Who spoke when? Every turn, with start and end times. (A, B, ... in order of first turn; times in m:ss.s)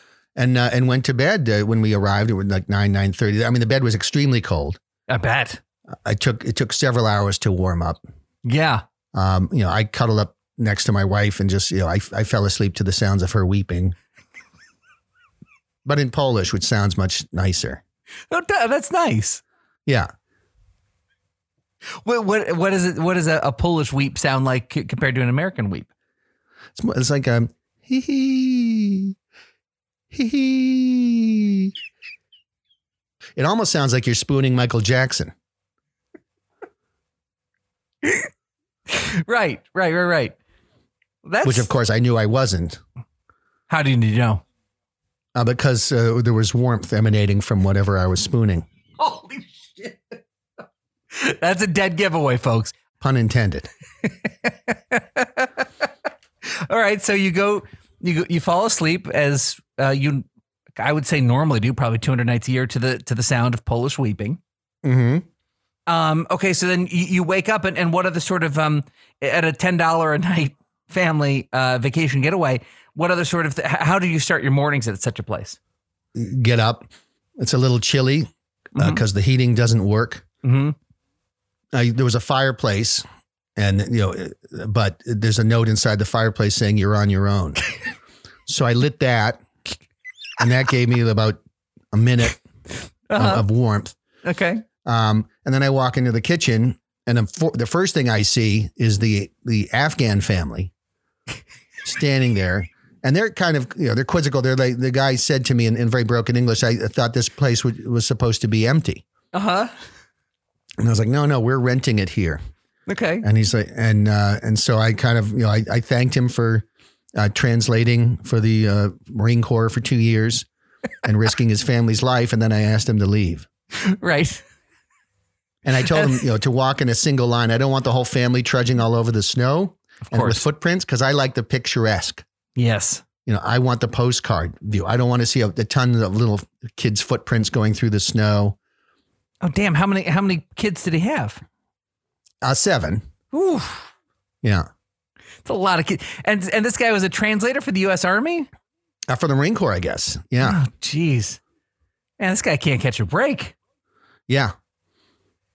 0:00.4-0:04.8 A
0:05.1-0:05.6 B
0:06.0-0:08.0 A
0:08.4-0:08.8 B
0:09.1-0:13.9 A
0:15.8-0:17.8 A
0:18.3-0:19.4 B
0:22.0-0:25.9 B
0:26.8-0:29.2 A
0:30.1-0:31.7 A
0:33.4-0:35.3 A
0:38.0-0:38.3 B
0:38.9-0:40.4 B
0:41.2-0:41.7 B
0:41.4-0:42.8 A
0:43.7-0:44.4 B
0:45.4-0:48.7 A
0:49.0-0:50.1 B
0:51.1-0:52.8 B
0:53.0-0:53.7 A
0:54.0-0:55.9 B
0:56.4-1:00.3 B
1:00.8-1:04.4 B
1:04.8-1:05.2 A
1:05.9-1:15.6 B
1:16.2-1:16.9 A
1:17.4-1:20.2 A
1:20.4-1:20.8 B
1:21.7-1:23.0 A
1:23.6-1:27.6 A
1:28.5-1:29.4 A
1:30.4-1:31.4 A
1:31.9-1:32.4 A
1:33.1-1:33.4 B
1:33.2-1:34.0 A
1:34.2-1:34.6 B
1:34.8-1:40.7 A
1:41.8-1:49.0 A
1:49.3-1:49.7 B
1:50.8-1:52.4 A
1:52.9-1:53.2 B
1:53.2-2:00.5 A
2:01.0-2:03.5 A
2:03.7-2:04.4 B
2:05.6-2:12.2 A
2:05.9-2:06.2 B
2:10.1-2:10.4 B
2:12.6-2:13.0 B
2:13.2-2:18.6 A
2:19.4-2:21.4 B
2:22.4-2:23.0 A
2:23.3-2:23.9 B
2:25.4-2:28.5 B
2:29.1-2:30.6 A
2:30.4-2:31.4 B
2:32.2-2:33.6 B
2:34.3-2:34.5 A